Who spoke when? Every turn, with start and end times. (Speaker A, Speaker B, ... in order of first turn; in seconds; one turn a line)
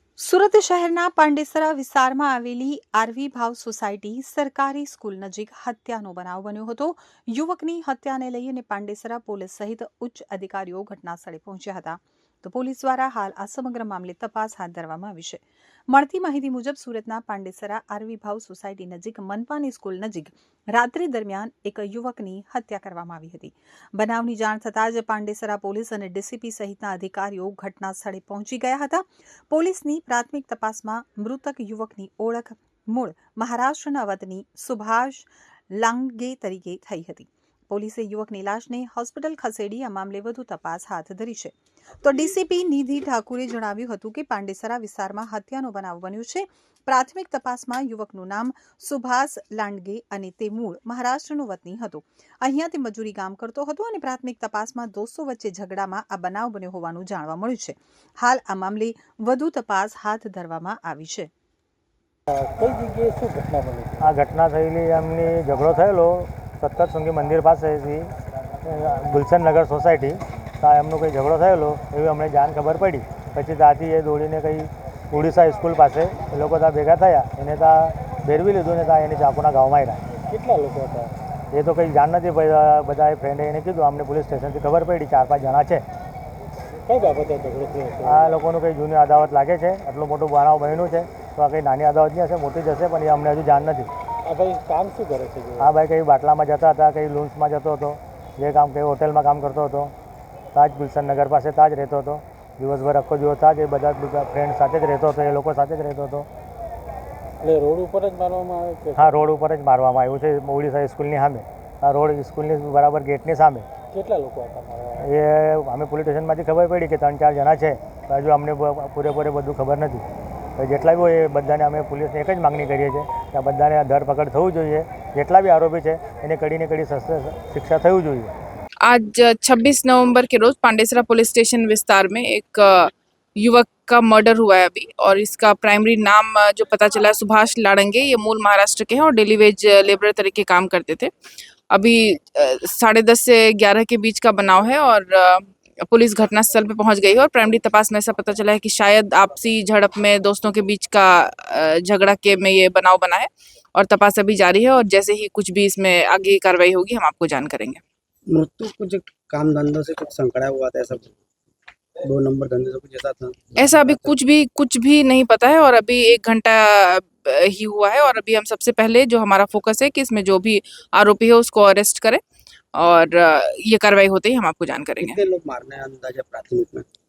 Speaker A: 0.2-61.3
Speaker B: 62.3-64.1
Speaker C: 64.0-68.1
Speaker C: 68.6-80.0
Speaker B: 80.3-81.2
Speaker C: 81.5-85.8
Speaker B: 86.8-88.4
Speaker C: 88.0-93.9
Speaker B: 94.2-95.7
Speaker C: 95.6-99.9
Speaker C: 100.5-106.3
Speaker B: 107.4-109.2
Speaker C: 109.0-113.7
Speaker B: 113.9-115.1
Speaker C: 115.0-120.0
Speaker C: 120.6-128.3
Speaker D: 128.8-141.1
Speaker D: 141.7-157.8
Speaker E: 158.3-161.2
Speaker E: 162.0-164.1
Speaker D: 163.6-172.2
Speaker D: 172.8-175.2
Speaker E: 175.0-176.9